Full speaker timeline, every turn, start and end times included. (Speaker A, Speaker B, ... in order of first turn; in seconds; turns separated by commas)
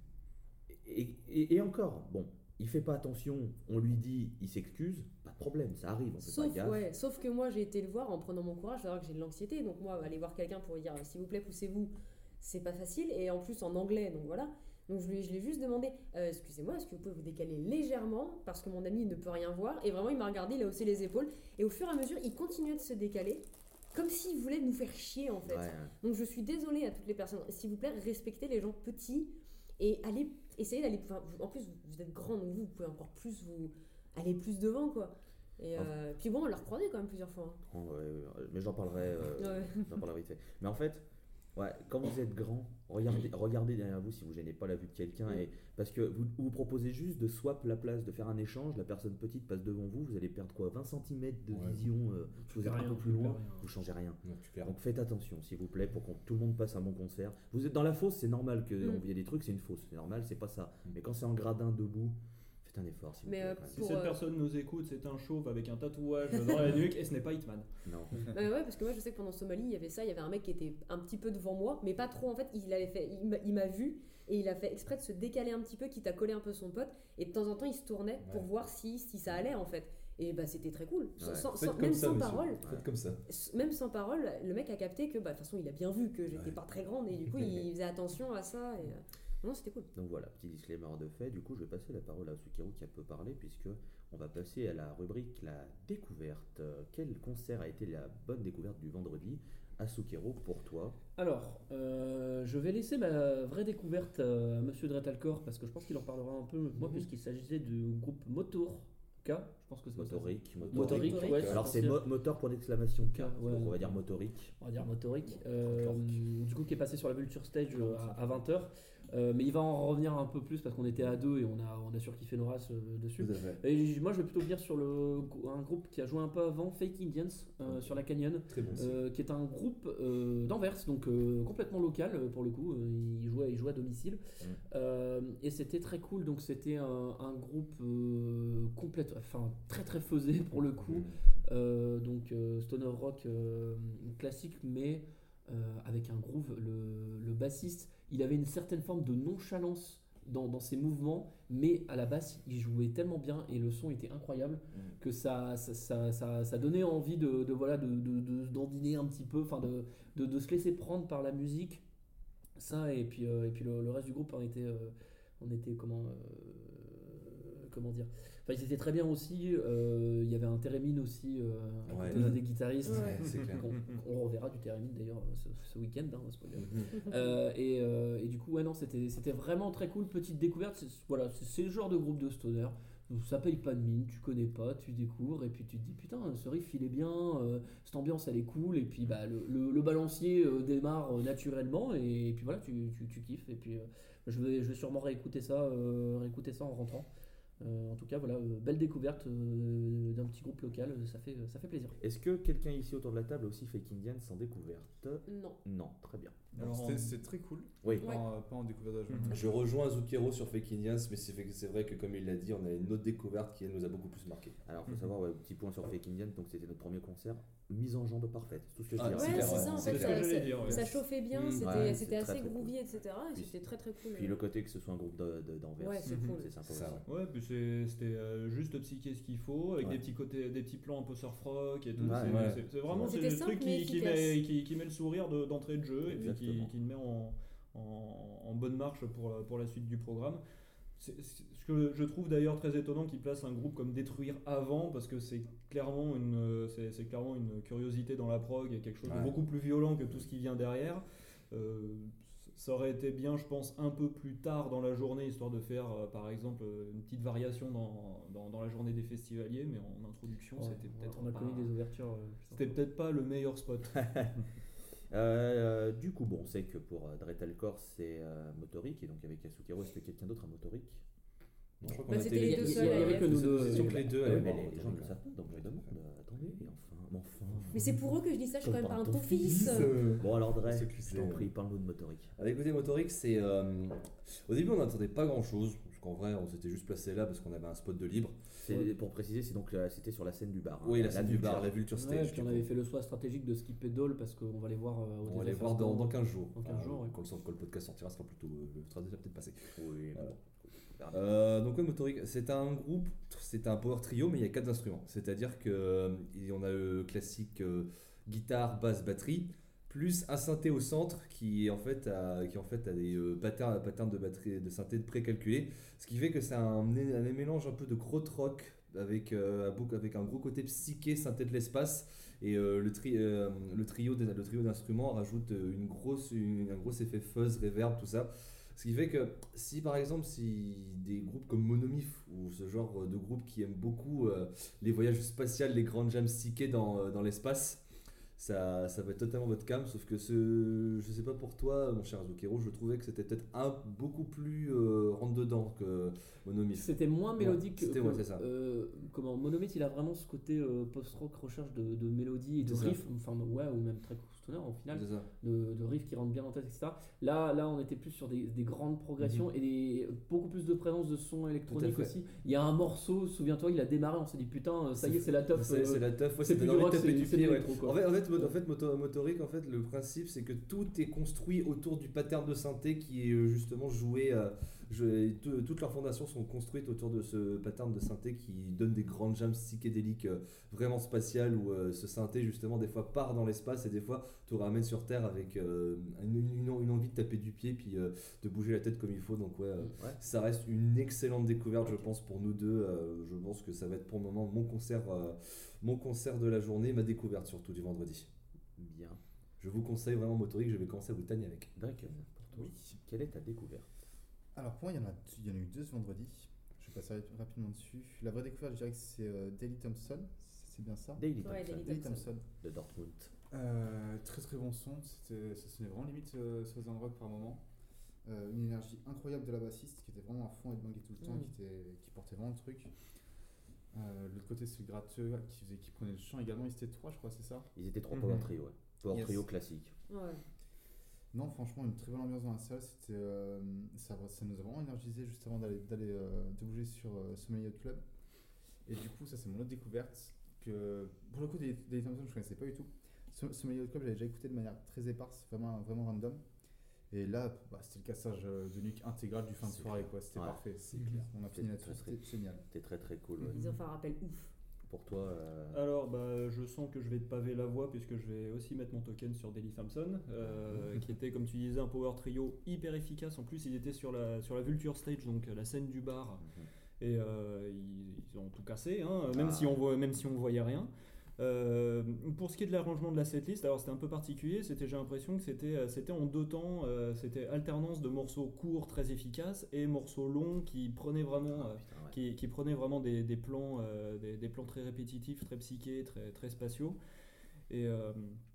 Speaker A: 0.7-6.9, Speaker B: 6.2-37.6, Speaker A: 25.4-25.9, Speaker A: 37.7-63.9, Speaker B: 39.4-39.9, Speaker C: 51.5-51.8, Speaker D: 52.4-53.7, Speaker C: 54.2-54.7, Speaker B: 63.2-64.2, Speaker E: 63.7-67.7, Speaker A: 67.9-68.3, Speaker B: 68.2-82.6, Speaker C: 78.2-78.5, Speaker A: 81.2-81.5, Speaker C: 81.5-83.2, Speaker A: 82.6-82.9, Speaker B: 83.2-89.9, Speaker C: 86.3-86.6, Speaker A: 89.9-101.0, Speaker D: 101.2-112.0, Speaker A: 109.9-114.5, Speaker C: 110.6-111.6, Speaker B: 110.9-111.5, Speaker D: 113.0-113.9, Speaker D: 114.6-161.8, Speaker A: 115.7-116.0, Speaker C: 123.2-123.6, Speaker C: 127.7-128.0, Speaker C: 128.5-129.0, Speaker A: 140.9-141.2, Speaker D: 162.6-197.1, Speaker C: 171.9-173.7, Speaker B: 172.9-173.2, Speaker C: 176.6-176.9, Speaker D: 197.6-202.0, Speaker A: 202.0-206.4, Speaker B: 205.3-205.6, Speaker F: 206.5-209.4, Speaker E: 206.6-207.2, Speaker A: 207.8-208.2, Speaker C: 209.3-214.6, Speaker A: 214.7-219.9, Speaker C: 218.9-221.9, Speaker B: 219.1-224.4, Speaker E: 219.7-220.9, Speaker A: 221.6-222.8, Speaker A: 224.1-227.1, Speaker B: 225.8-226.5, Speaker E: 226.1-226.4, Speaker C: 226.7-227.0, Speaker E: 227.1-240.4, Speaker C: 232.0-233.1, Speaker A: 232.1-232.5, Speaker B: 233.0-234.4, Speaker A: 236.1-236.7, Speaker E: 241.0-261.7, Speaker C: 249.1-249.4, Speaker D: 260.6-262.8, Speaker E: 262.5-264.2, Speaker A: 264.0-264.3, Speaker A: 265.1-271.0, Speaker C: 271.8-275.1, Speaker A: 271.9-272.1, Speaker B: 272.1-273.9, Speaker D: 272.3-274.4, Speaker A: 273.7-278.0, Speaker B: 277.7-279.9, Speaker A: 278.6-282.3, Speaker C: 279.4-281.5, Speaker C: 282.4-288.4, Speaker A: 288.6-291.8, Speaker C: 290.8-292.7, Speaker D: 291.9-297.1, Speaker C: 295.2-300.3, Speaker A: 299.8-301.2, Speaker C: 301.1-348.4, Speaker D: 346.7-368.5, Speaker C: 352.6-353.0, Speaker C: 354.9-355.3, Speaker C: 359.2-359.5, Speaker C: 361.7-362.2, Speaker C: 365.0-398.3, Speaker A: 389.9-390.2, Speaker A: 391.8-392.1, Speaker A: 398.8-399.2, Speaker C: 399.6-401.7, Speaker A: 401.8-403.9, Speaker F: 402.5-402.9, Speaker F: 404.6-411.2, Speaker A: 411.2-411.9, Speaker B: 411.4-412.3, Speaker F: 411.8-412.4, Speaker A: 412.6-413.3, Speaker F: 413.5-417.6, Speaker F: 418.2-422.9, Speaker F: 423.9-427.7, Speaker A: 427.7-429.9, Speaker F: 429.1-429.4, Speaker B: 430.1-430.4, Speaker F: 431.3-438.0, Speaker F: 438.9-446.4, Speaker F: 447.1-452.6, Speaker A: 449.6-450.6, Speaker A: 451.5-453.7, Speaker B: 453.5-454.5, Speaker A: 454.9-455.8, Speaker E: 455.7-466.4, Speaker A: 466.4-466.7, Speaker E: 467.0-487.0, Speaker A: 469.3-469.8, Speaker A: 481.5-482.2, Speaker E: 487.7-488.4